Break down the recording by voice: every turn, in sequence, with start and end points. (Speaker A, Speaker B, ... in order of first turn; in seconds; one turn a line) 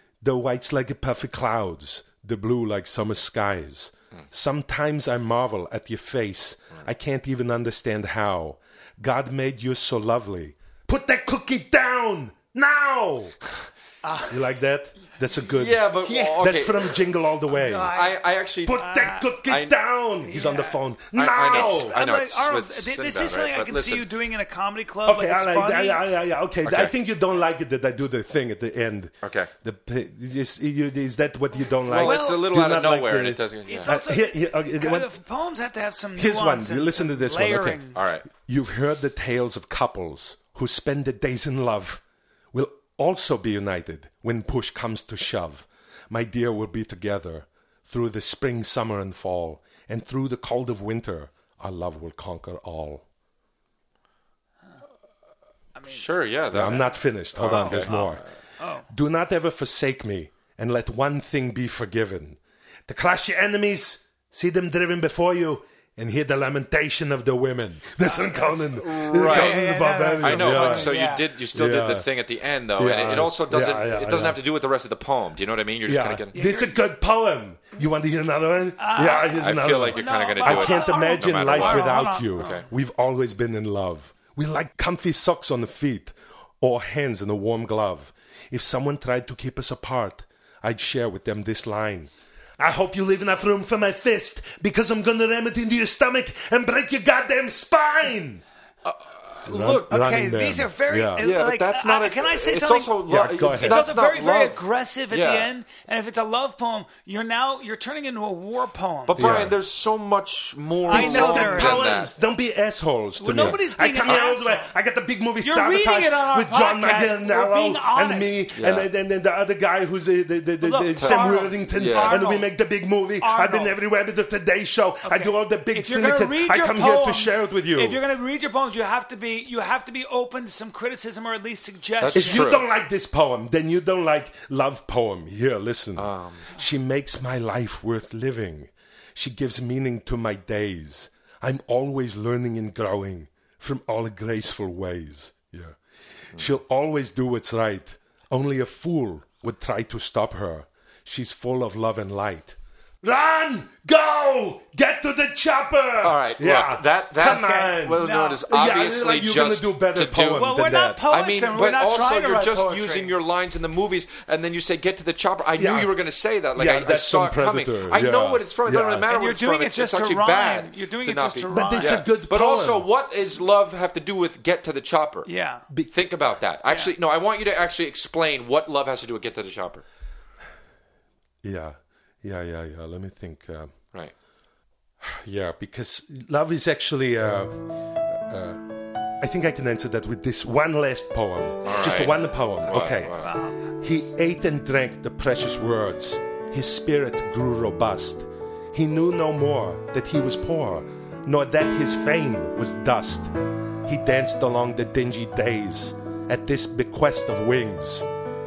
Speaker A: 0.2-13.3
Speaker B: 14.0-14.4
Speaker A: 14.3-18.0
Speaker C: 15.5-17.0
Speaker B: 17.5-18.2
Speaker C: 17.9-18.8
Speaker A: 18.6-22.0
Speaker B: 18.8-19.3
Speaker C: 19.4-19.7
Speaker B: 20.2-20.8
Speaker C: 21.1-24.1
Speaker B: 21.4-26.0
Speaker A: 25.0-35.1
Speaker C: 26.6-26.9
Speaker C: 29.2-29.5
Speaker C: 31.9-33.9
Speaker B: 31.9-32.4
Speaker B: 33.7-38.0
Speaker A: 36.1-53.0
Speaker C: 37.9-38.2
Speaker B: 55.7-56.8
Speaker C: 55.9-57.9
Speaker A: 56.5-58.2
Speaker B: 57.4-58.9
Speaker A: 58.9-71.0
Speaker B: 68.0-71.3
Speaker C: 68.7-69.7
Speaker C: 70.2-76.4
Speaker A: 71.5-72.1
Speaker A: 72.8-74.4
Speaker A: 75.8-98.4
Speaker B: 76.3-76.8
Speaker B: 78.8-82.6
Speaker C: 79.4-82.6
Speaker C: 98.8-100.0
Speaker A: 99.4-101.2
Speaker B: 99.9-109.4
Speaker C: 101.2-105.5
Speaker A: 103.1-103.9
Speaker C: 109.1-112.1
Speaker A: 109.2-109.6
Speaker B: 110.8-112.0
Speaker A: 110.9-128.0
Speaker B: 113.2-114.7
Speaker B: 115.4-118.4
Speaker C: 118.5-118.9
Speaker B: 120.6-122.5
Speaker C: 121.0-122.2
Speaker B: 123.2-123.8
Speaker B: 125.0-132.5
Speaker C: 132.0-132.7
Speaker A: 132.1-145.8
Speaker C: 135.9-136.5
Speaker A: 146.3-161.0
Speaker C: 156.0-160.5
Speaker B: 157.2-158.4
Speaker B: 160.3-163.1
Speaker C: 161.1-175.3
Speaker A: 165.6-165.9
Speaker A: 166.6-169.1
Speaker B: 169.1-172.0
Speaker A: 171.5-172.8
Speaker B: 175.2-175.7
Speaker A: 175.7-175.9
Speaker C: 175.9-179.8
Speaker A: 181.4-183.7
Speaker A: 185.0-193.1
Speaker C: 191.6-193.3
Speaker B: 193.2-193.7
Speaker A: 193.8-203.3
Speaker A: 203.8-208.1